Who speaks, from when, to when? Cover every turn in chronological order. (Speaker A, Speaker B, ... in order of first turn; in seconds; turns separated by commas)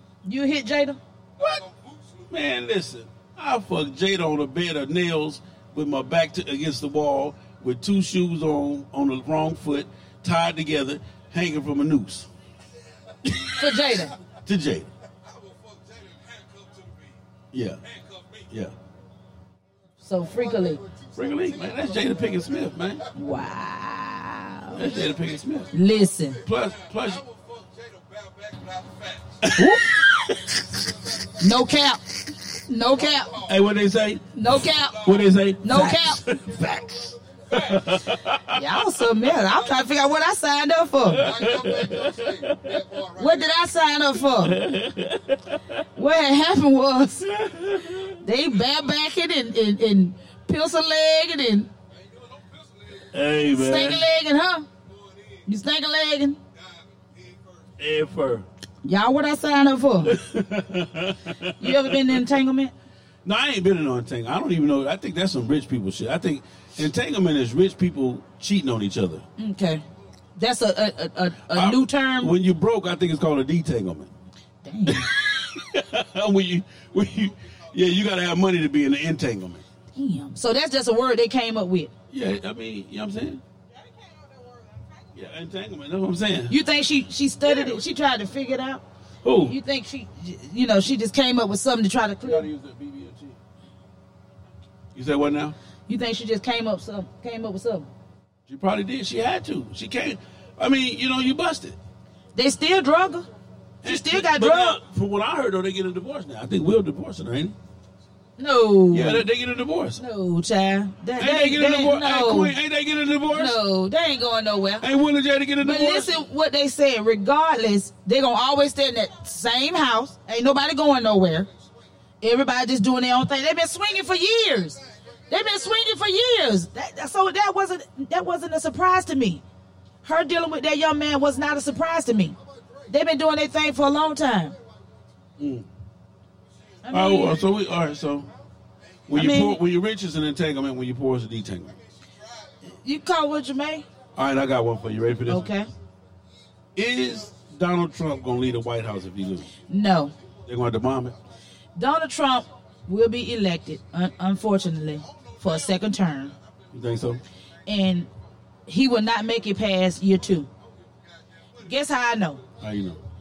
Speaker A: 0.2-1.0, Speaker B: 2.3-12.3, Speaker B: 13.2-13.5, Speaker A: 13.6-14.1, Speaker B: 14.4-14.9, Speaker B: 17.5-17.8, Speaker B: 18.5-18.7, Speaker A: 20.0-20.8, Speaker B: 21.2-23.0, Speaker A: 23.1-24.9, Speaker B: 24.7-25.7, Speaker A: 25.7-26.4, Speaker B: 26.4-27.2, Speaker B: 29.4-29.8, Speaker A: 29.6-30.1, Speaker A: 31.4-32.0, Speaker A: 32.7-33.4, Speaker B: 33.4-34.2, Speaker A: 34.4-35.1, Speaker B: 35.0-38.6, Speaker A: 35.6-36.2, Speaker A: 38.5-41.3, Speaker B: 41.1-42.9, Speaker A: 43.1-44.6, Speaker B: 44.4-45.6, Speaker A: 46.0-47.3, Speaker B: 47.3-48.1, Speaker A: 48.2-51.7, Speaker B: 53.1-54.1, Speaker A: 53.5-54.7, Speaker A: 55.5-56.4, Speaker B: 57.8-58.5, Speaker A: 58.8-60.2, Speaker B: 60.0-62.3, Speaker A: 61.6-62.7, Speaker B: 63.2-69.2, Speaker A: 69.4-69.8, Speaker A: 70.4-72.3, Speaker B: 71.5-74.1, Speaker A: 74.6-75.1, Speaker B: 74.9-79.6, Speaker A: 80.0-81.9, Speaker B: 82.1-83.4, Speaker B: 85.1-86.5, Speaker A: 86.5-88.8, Speaker B: 87.5-87.7, Speaker B: 89.2-89.6, Speaker A: 89.4-92.5, Speaker B: 92.2-93.4, Speaker B: 94.9-95.6, Speaker A: 95.9-97.9, Speaker B: 98.5-101.8, Speaker A: 102.3-103.3, Speaker B: 103.8-107.5, Speaker A: 103.8-104.8, Speaker A: 108.4-109.2, Speaker B: 108.9-110.0, Speaker A: 110.0-112.5, Speaker B: 111.2-113.6, Speaker A: 113.3-114.9, Speaker B: 114.8-116.2, Speaker A: 115.6-121.5, Speaker A: 122.2-129.4, Speaker A: 130.0-132.4, Speaker A: 132.9-134.6, Speaker B: 135.4-135.7, Speaker A: 136.8-137.4, Speaker B: 136.9-138.3, Speaker B: 139.1-141.8, Speaker A: 139.1-139.6, Speaker A: 142.7-143.8, Speaker B: 144.2-145.5, Speaker A: 145.3-145.7, Speaker B: 146.8-149.5, Speaker A: 149.7-150.1, Speaker B: 150.5-151.2, Speaker A: 151.8-156.3, Speaker B: 156.7-157.2, Speaker A: 157.7-158.1, Speaker A: 158.7-160.5, Speaker A: 161.6-162.4, Speaker B: 162.6-163.0